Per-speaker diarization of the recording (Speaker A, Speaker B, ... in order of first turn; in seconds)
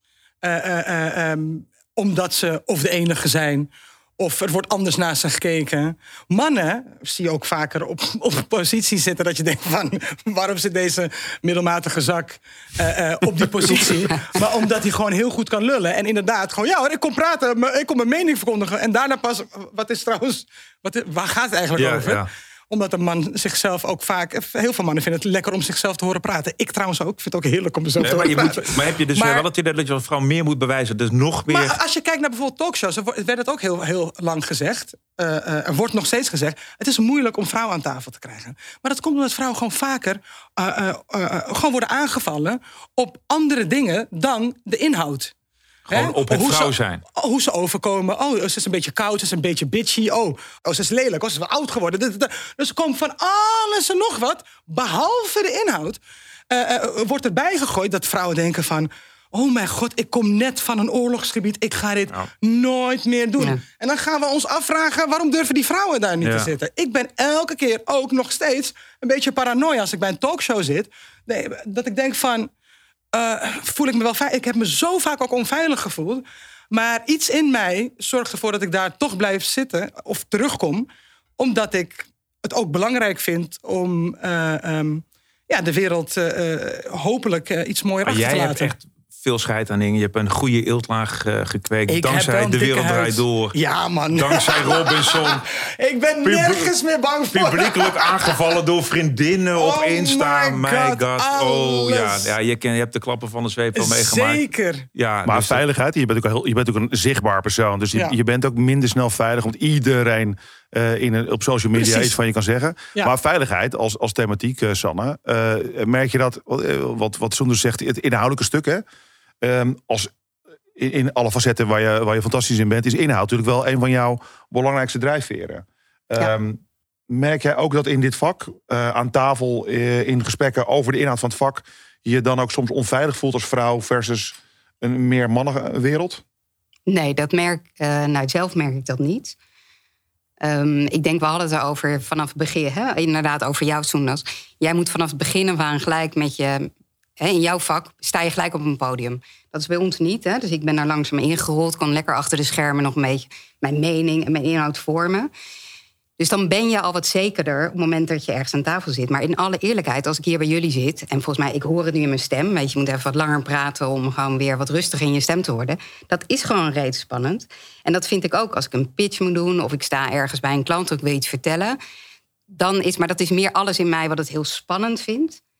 Speaker A: 0.4-29.4, 31.5-45.3, 45.9-72.5, 73.1-80.9, 81.4-88.7, 91.9-98.4, 99.5-102.3, 103.8-104.9, 111.8-112.1
Speaker B: 21.8-22.3, 28.0-31.8, 45.9-47.0, 66.2-66.5, 88.0-93.5, 94.1-95.4, 96.2-96.6, 97.3-104.4, 104.9-105.6
Speaker C: 105.2-118.8, 119.4-120.1, 120.8-136.2
Speaker D: 136.9-139.3, 140.4-155.3, 156.2-171.8, 172.5-175.4